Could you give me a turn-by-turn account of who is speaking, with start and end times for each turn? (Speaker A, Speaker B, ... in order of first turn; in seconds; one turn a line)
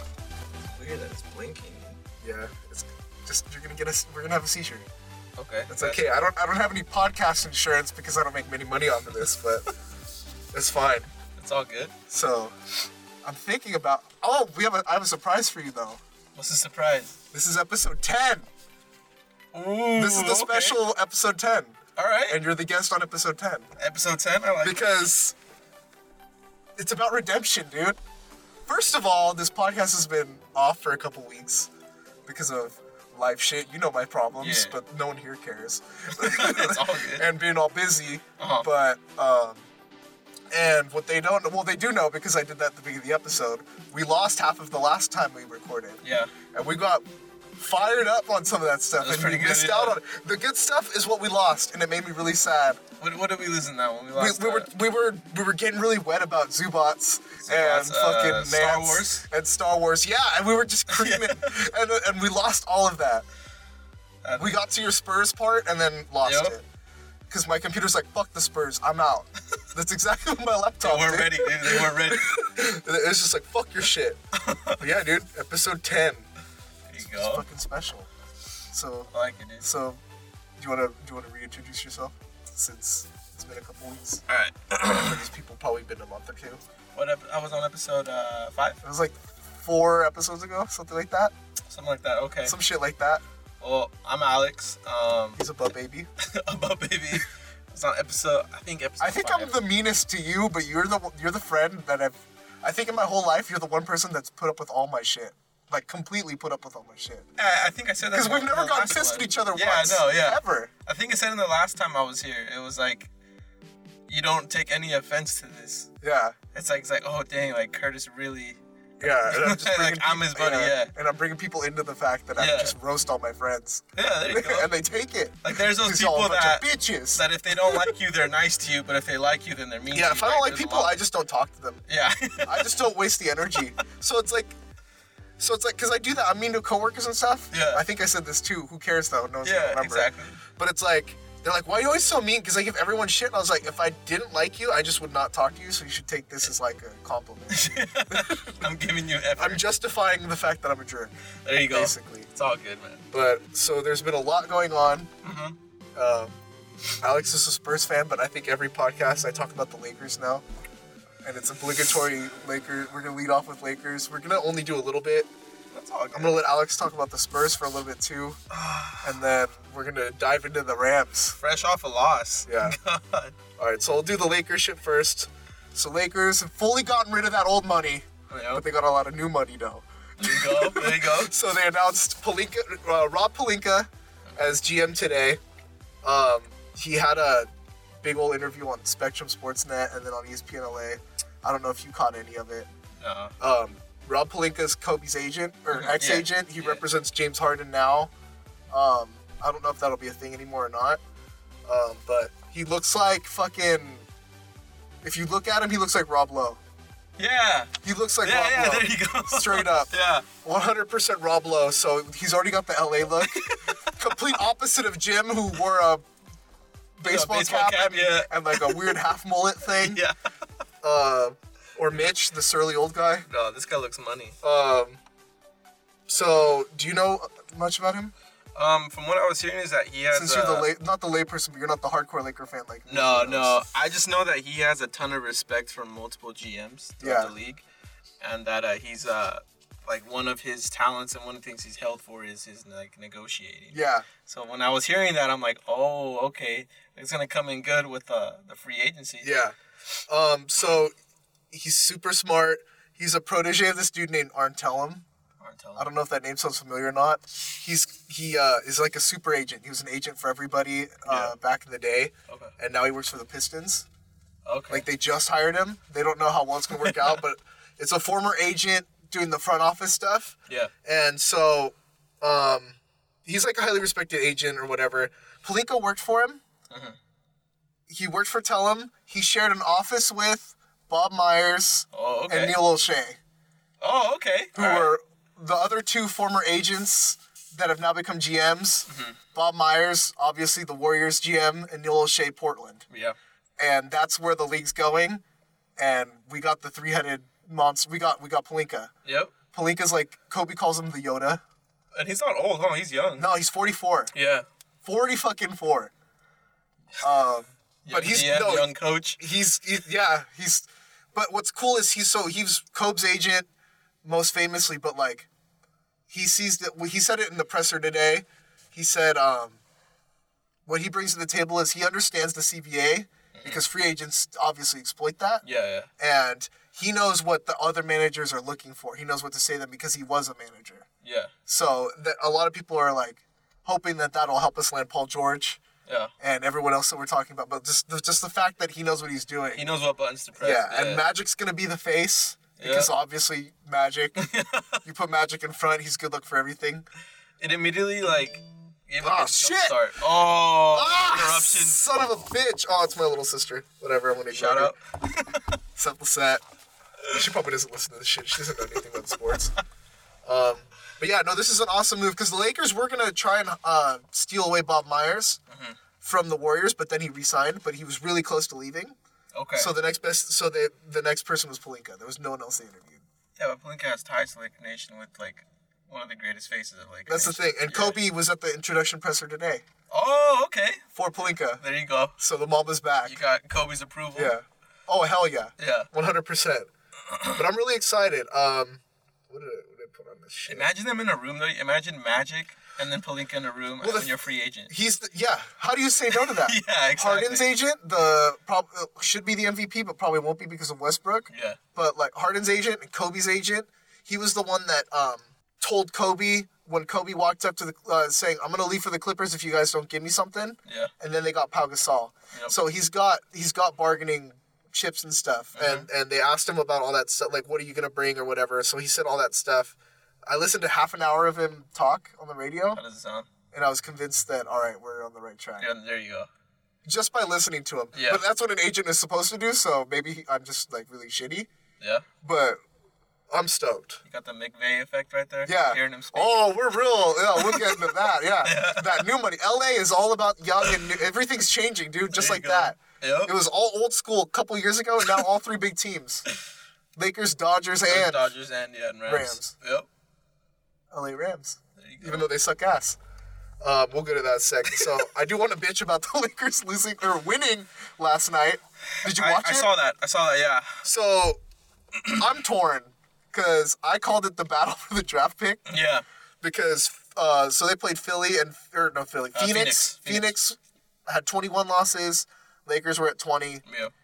Speaker A: 0.6-2.0
Speaker B: 2.2-4.9
Speaker A: 5.4-6.1
Speaker B: 5.7-9.7
Speaker B: 10.5-11.1
Speaker A: 11.4-11.9
Speaker B: 12.1-12.5
Speaker B: 13.2-16.0
Speaker A: 16.4-17.2
Speaker B: 17.3-18.5
Speaker A: 19.5-20.8
Speaker B: 19.9-21.8
Speaker A: 22.0-22.4
Speaker B: 22.3-23.7
Speaker A: 23.8-24.9
Speaker B: 24.6-25.4
Speaker B: 26.8-28.0
Speaker B: 28.7-31.7
Speaker B: 32.3-39.7
Speaker A: 34.4-34.8
Speaker A: 36.1-37.3
Speaker A: 38.4-38.7
Speaker B: 40.5-46.0
Speaker A: 46.0-46.3
Speaker B: 46.5-47.1
Speaker B: 47.6-52.8
Speaker A: 49.0-50.0
Speaker A: 53.0-54.7
Speaker B: 54.2-63.3
Speaker A: 57.4-59.2
Speaker A: 60.9-61.6
Speaker A: 64.2-64.5
Speaker B: 64.4-66.6
Speaker A: 66.2-66.6
Speaker B: 67.3-74.2
Speaker A: 70.8-72.3
Speaker A: 74.3-74.8
Speaker B: 74.8-76.3
Speaker A: 76.9-77.4
Speaker B: 77.1-78.1
Speaker B: 78.7-80.0
Speaker A: 79.1-79.7
Speaker B: 80.6-84.2
Speaker A: 84.3-85.2
Speaker B: 84.8-86.6
Speaker A: 87.0-88.8
Speaker B: 88.8-91.3
Speaker A: 91.7-92.6
Speaker B: 92.5-93.2
Speaker A: 93.6-95.4
Speaker B: 95.4-96.1
Speaker A: 96.2-99.6
Speaker B: 99.0-107.3
Speaker A: 107.4-113.1
Speaker B: 108.1-110.7
Speaker A: 114.1-115.9
Speaker B: 116.0-116.4
Speaker A: 116.5-120.9
Speaker B: 119.0-127.9
Speaker A: 122.4-122.7
Speaker A: 124.0-124.7
Speaker A: 125.4-131.0
Speaker B: 129.9-131.8
Speaker A: 131.9-132.7
Speaker B: 132.5-134.5
Speaker B: 135.4-148.6
Speaker A: 137.5-137.8
Speaker A: 139.4-140.4
Speaker A: 147.5-149.6
Speaker B: 149.4-151.2
Speaker A: 151.4-153.1
Speaker B: 151.7-152.3
Speaker B: 153.1-155.1
Speaker A: 155.2-155.6
Speaker B: 156.0-156.4
Speaker B: 157.0-160.4
Speaker B: 161.2-165.3
Speaker A: 165.7-166.4
Speaker B: 166.1-168.4
Speaker A: 168.6-169.0
Speaker B: 169.0-171.4
Speaker A: 171.4-173.4
Speaker B: 172.5-172.8
Speaker B: 173.6-185.4
Speaker A: 178.3-178.6
Speaker A: 180.2-181.3
Speaker B: 186.0-187.5
Speaker B: 188.0-192.7
Speaker A: 193.0-193.3
Speaker B: 193.4-198.1
Speaker A: 195.7-196.8
Speaker B: 198.7-201.0
Speaker B: 201.7-204.1
Speaker B: 205.0-206.6
Speaker A: 207.2-210.3
Speaker B: 207.8-216.1
Speaker A: 213.2-214.0
Speaker B: 217.0-220.0
Speaker A: 217.0-219.0
Speaker A: 219.7-220.2
Speaker B: 220.8-223.3
Speaker A: 223.3-224.4
Speaker B: 224.4-225.0
Speaker B: 226.1-228.1
Speaker A: 228.6-230.7
Speaker B: 230.1-233.6
Speaker A: 232.9-237.6
Speaker B: 237.0-237.3
Speaker A: 238.2-249.3
Speaker B: 243.7-244.1
Speaker B: 249.2-249.6
Speaker B: 250.1-250.9
Speaker B: 251.5-255.1
Speaker A: 255.4-255.9
Speaker B: 255.8-263.9
Speaker A: 261.1-261.4
Speaker A: 264.5-264.9
Speaker B: 264.7-276.4
Speaker A: 266.8-267.1
Speaker A: 276.7-277.0
Speaker B: 277.9-283.2
Speaker A: 281.9-282.6
Speaker A: 283.8-284.9
Speaker B: 284.6-292.9
Speaker A: 288.9-289.2
Speaker A: 292.9-293.2
Speaker B: 293.6-295.2
Speaker B: 295.8-298.9
Speaker A: 299.1-299.3
Speaker B: 299.5-301.4
Speaker A: 301.9-303.3
Speaker B: 303.2-304.1
Speaker A: 304.1-304.5
Speaker B: 304.8-305.9
Speaker B: 307.0-313.5
Speaker A: 307.9-309.2
Speaker B: 314.0-315.3
Speaker B: 316.1-319.6
Speaker B: 320.7-325.4
Speaker A: 323.3-323.6
Speaker A: 325.4-325.9
Speaker B: 326.0-330.9
Speaker A: 331.0-331.3
Speaker B: 331.5-335.6
Speaker A: 335.9-336.1
Speaker B: 336.2-339.6
Speaker A: 339.6-341.0
Speaker B: 340.4-344.2
Speaker A: 342.6-342.9
Speaker A: 344.2-344.8
Speaker B: 344.8-346.9
Speaker A: 347.4-351.8
Speaker B: 349.0-349.8
Speaker B: 350.7-354.8
Speaker A: 354.3-355.5
Speaker B: 355.8-356.4
Speaker B: 357.1-359.5
Speaker B: 360.2-365.4
Speaker A: 365.5-365.8
Speaker B: 366.0-369.0
Speaker A: 369.4-369.7
Speaker B: 369.6-373.0
Speaker A: 373.4-378.0
Speaker B: 377.1-379.6
Speaker A: 379.9-380.8
Speaker B: 380.9-381.6
Speaker A: 381.6-382.2
Speaker B: 382.2-383.2
Speaker A: 383.1-384.4
Speaker B: 384.1-386.7
Speaker A: 385.6-385.9
Speaker A: 387.1-387.4
Speaker B: 387.3-390.7
Speaker A: 390.5-394.7
Speaker B: 393.8-394.1
Speaker B: 394.7-419.8
Speaker A: 396.1-397.5
Speaker A: 401.3-401.6
Speaker A: 410.7-410.9
Speaker A: 415.6-415.9
Speaker B: 420.3-422.8
Speaker A: 422.8-423.3
Speaker B: 423.5-425.7
Speaker A: 425.6-426.3
Speaker B: 426.9-431.5
Speaker A: 427.9-428.2
Speaker A: 431.8-432.1
Speaker B: 432.2-432.6
Speaker B: 433.3-434.0
Speaker A: 434.1-436.4
Speaker B: 435.5-446.2
Speaker A: 437.4-439.0
Speaker A: 442.1-443.3
Speaker B: 447.0-448.3
Speaker A: 447.9-449.9
Speaker B: 449.1-449.5
Speaker B: 450.9-453.0
Speaker A: 451.8-452.3
Speaker B: 453.6-459.7
Speaker A: 459.0-460.9
Speaker B: 460.8-461.4
Speaker B: 462.1-465.7
Speaker A: 465.7-466.0
Speaker B: 466.4-473.6
Speaker A: 469.4-470.4
Speaker A: 473.7-473.9